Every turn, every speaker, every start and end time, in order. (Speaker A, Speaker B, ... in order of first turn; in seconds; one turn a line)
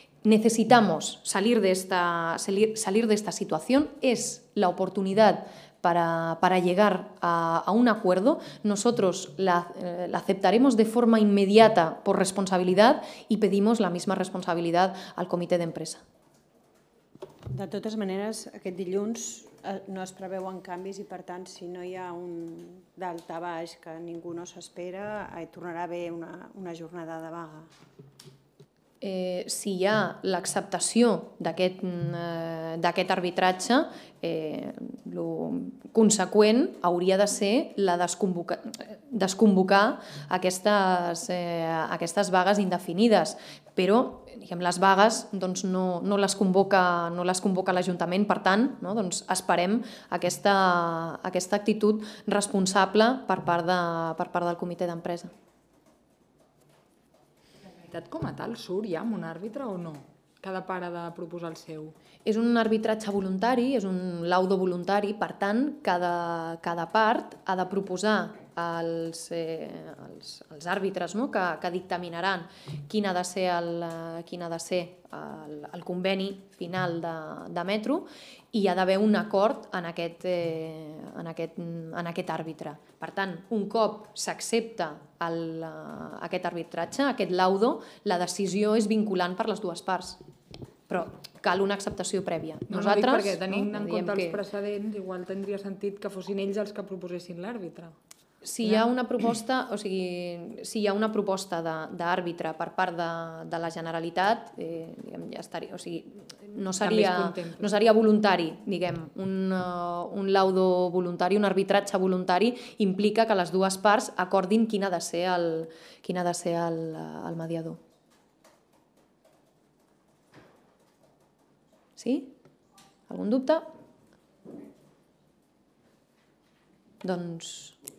Speaker A: 0.2-16.0
Speaker B: 17.5-27.7
Speaker A: 29.0-55.3
Speaker C: 57.8-61.9
Speaker A: 62.2-90.2
Speaker A: 90.9-94.4
Speaker C: 92.7-97.9
Speaker A: 98.4-117.8
Speaker C: 106.8-107.6
Speaker A: 122.0-122.3
Speaker A: 123.1-123.6
Speaker A: 127.0-127.8